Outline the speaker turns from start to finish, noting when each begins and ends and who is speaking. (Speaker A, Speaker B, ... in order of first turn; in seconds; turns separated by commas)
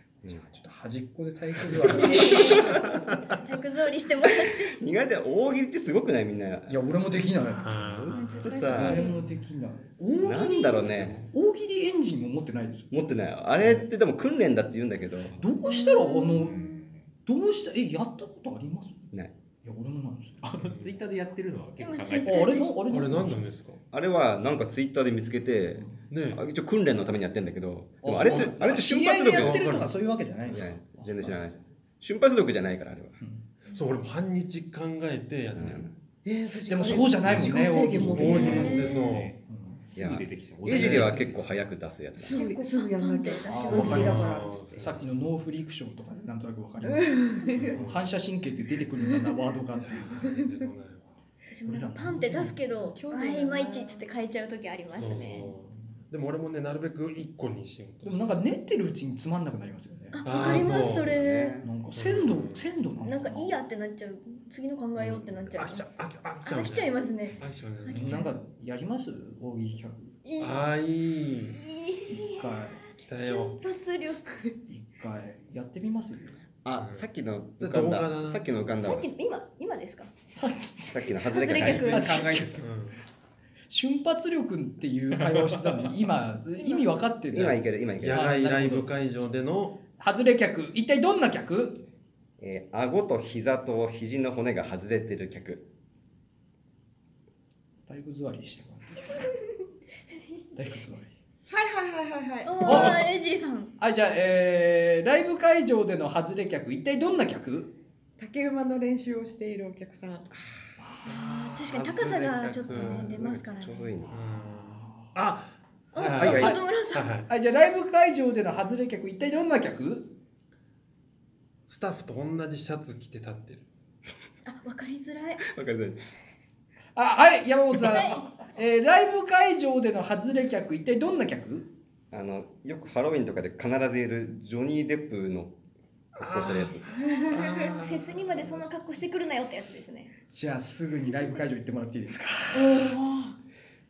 Speaker A: 0.3-2.7, Speaker B: 2.0-4.8, Speaker C: 2.1-2.8, Speaker C: 4.7-6.8, Speaker A: 6.7-12.9, Speaker D: 7.6-8.8, Speaker B: 8.1-9.1, Speaker C: 8.4-9.1, Speaker C: 10.2-11.3, Speaker D: 10.9-11.3, Speaker C: 12.9-15.4, Speaker A: 15.4-16.7, Speaker B: 15.8-16.5, Speaker E: 16.3-16.8, Speaker A: 17.2-19.1, Speaker A: 19.6-20.5, Speaker E: 20.4-22.6, Speaker D: 20.6-20.9, Speaker B: 21.8-22.7, Speaker A: 22.2-23.5, Speaker D: 22.8-23.8, Speaker C: 23.9-29.7, Speaker D: 26.1-26.4, Speaker A: 28.0-31.4, Speaker D: 29.3-29.9, Speaker C: 30.5-33.2, Speaker D: 33.7-35.9, Speaker C: 35.6-35.9, Speaker F: 36.2-39.0, Speaker A: 36.7-39.8, Speaker D: 38.0-39.4, Speaker B: 38.5-38.9, Speaker E: 38.9-41.5, Speaker C: 40.0-42.4, Speaker D: 40.7-41.2, Speaker F: 42.2-44.8, Speaker B: 42.3-44.1, Speaker A: 43.5-50.2, Speaker D: 43.7-45.2, Speaker F: 46.9-47.8, Speaker D: 47.5-48.1, Speaker D: 49.8-51.1, Speaker B: 51.5-55.5, Speaker A: 51.7-52.6, Speaker F: 52.8-54.0, Speaker D: 54.9-58.4, Speaker A: 58.0-60.3, Speaker B: 60.1-61.6, Speaker D: 60.2-61.1, Speaker C: 60.4-61.7, Speaker A: 61.6-63.6, Speaker D: 61.9-62.7, Speaker B: 63.0-68.3, Speaker D: 65.0-68.3, Speaker A: 67.9-70.2, Speaker B: 70.2-70.6, Speaker D: 70.4-71.6, Speaker B: 71.5-74.5, Speaker A: 72.1-72.8, Speaker D: 73.1-73.6, Speaker A: 74.7-76.4, Speaker C: 76.7-79.1, Speaker D: 76.8-77.1, Speaker D: 77.6-78.5, Speaker B: 78.8-80.1, Speaker A: 80.3-82.6, Speaker C: 80.9-82.0, Speaker B: 81.2-82.3, Speaker E: 81.7-82.7, Speaker D: 82.6-83.0, Speaker A: 83.7-89.0, Speaker B: 86.6-86.8, Speaker C: 87.3-88.2, Speaker D: 88.0-89.8, Speaker A: 90.0-91.8, Speaker C: 92.4-95.7, Speaker A: 97.9-99.3, Speaker A: 100.5-101.1, Speaker F: 101.5-102.9, Speaker B: 102.4-103.7, Speaker A: 102.7-103.0, Speaker A: 103.8-107.8, Speaker F: 108.2-110.3, Speaker A: 110.8-111.1, Speaker B: 111.0-113.9, Speaker D: 111.1-113.1, Speaker C: 112.7-114.2, Speaker D: 114.1-117.3, Speaker A: 114.3-115.1, Speaker B: 115.9-117.1, Speaker C: 116.2-116.5, Speaker A: 116.3-116.6, Speaker A: 117.3-120.1, Speaker D: 121.7-123.6, Speaker B: 124.5-125.5, Speaker C: 125.4-126.0, Speaker A: 127.0-131.7, Speaker B: 127.9-128.2, Speaker C: 132.1-135.6, Speaker C: 136.2-136.8, Speaker D: 136.2-138.6, Speaker B: 137.1-140.1, Speaker A: 140.3-142.9, Speaker F: 142.5-143.3